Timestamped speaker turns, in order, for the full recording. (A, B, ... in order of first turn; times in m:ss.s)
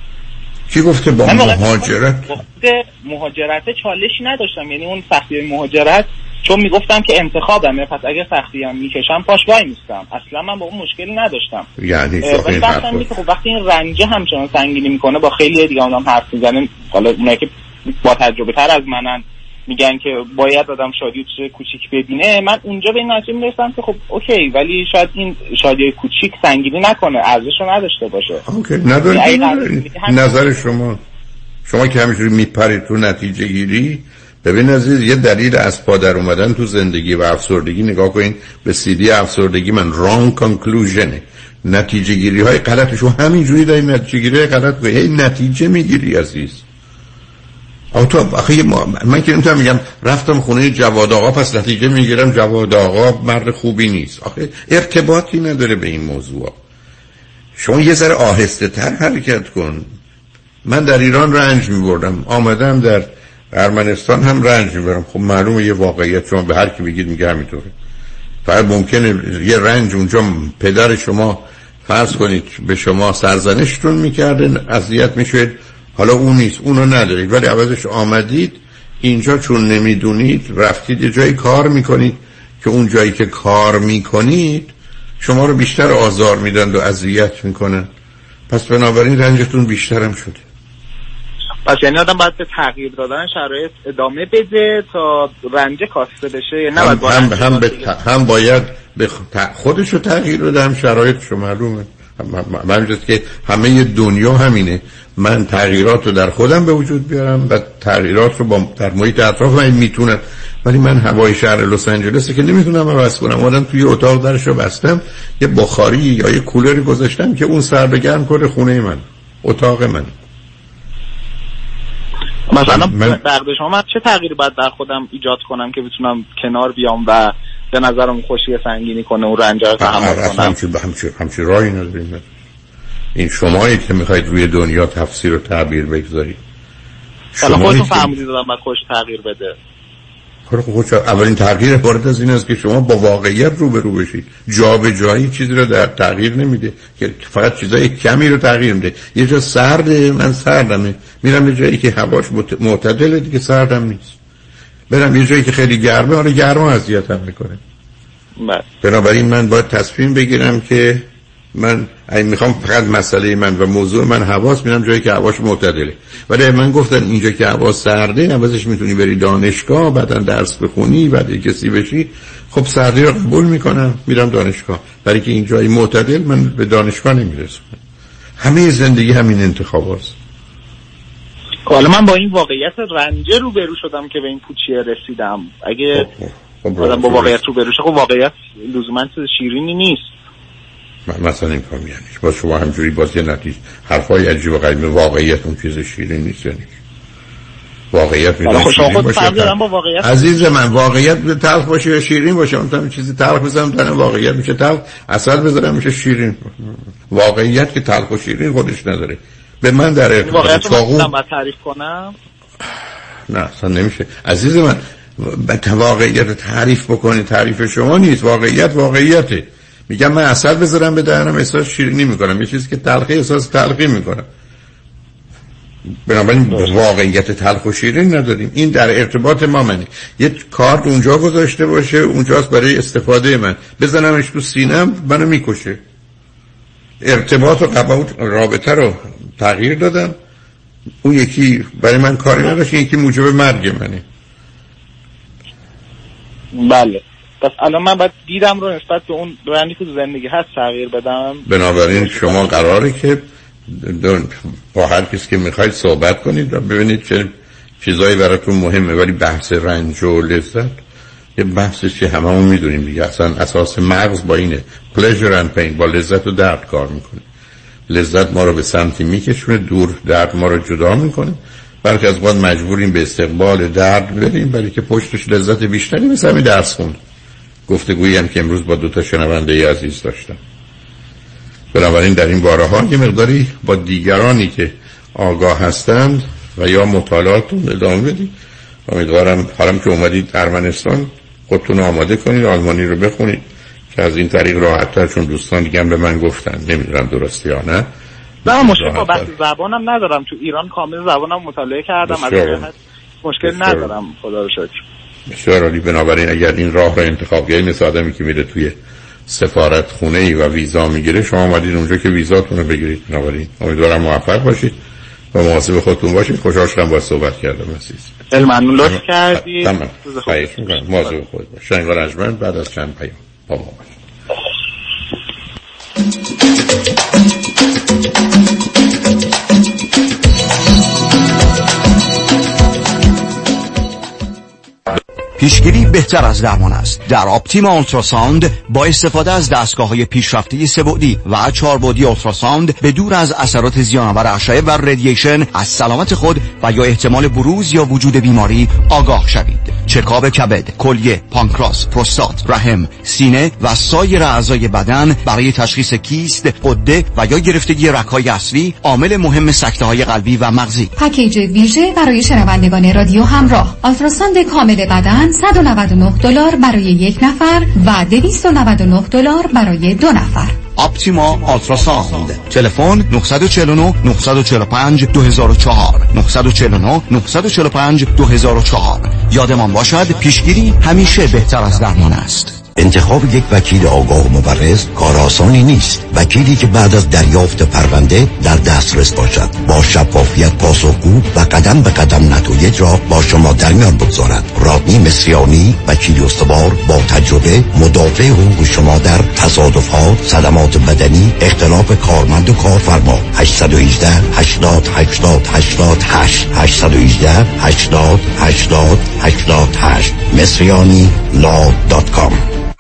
0:00.7-0:02.4 A
0:01.3-0:11.7 B
0:11.8-0:13.1 A
0:12.3-0:28.4 B
0:28.4-0:31.0 A
0:29.0-0:30.6 B
0:31.6-0:46.6 A
0:47.9-0:56.6 A
0:57.6-0:59.9 A
1:00.6-1:07.7 A
1:08.4-1:27.9 A
1:28.5-1:30.4 A
1:31.6-1:37.9 B
1:36.8-2:00.1 A
2:02.5-2:10.5 B
2:02.6-2:03.2 A
2:09.8-2:12.3 A
2:13.2-2:16.4 A
2:17.4-2:18.1 A
2:17.4-2:19.5 B
2:20.5-2:34.1 A
2:34.9-2:37.6 A
2:38.8-2:57.8 A
2:58.4-3:00.1 A
3:01.7-3:06.1 B
3:05.9-3:07.4 A
3:06.8-3:10.1 B
3:11.1-3:16.7 A
3:17.9-3:31.1 A
3:18.5-3:20.5 B
3:30.2-3:32.1 B
3:33.3-3:44.3 A
3:46.0-3:55.8 A
3:57.0-4:00.1 A
4:01.0-4:04.0 A
4:06.6-4:12.6 B
4:11.4-4:20.8 A
4:21.4-4:27.2 A
4:27.9-4:37.0 A
4:37.7-4:40.4 A
4:41.7-4:48.3 A
4:48.9-4:57.9 A
4:58.4-4:59.3 A
4:58.4-5:04.7 B
5:02.1-5:02.7 A
5:03.4-5:03.9 A
5:05.3-5:08.7 A
5:09.3-5:14.8 A
5:15.3-5:18.1 A
5:18.3-5:21.2 B
5:18.8-5:24.0 A
5:35.4-6:00.9 C
6:01.0-6:10.6 D
6:10.7-6:22.6 C
6:22.8-6:52.4 E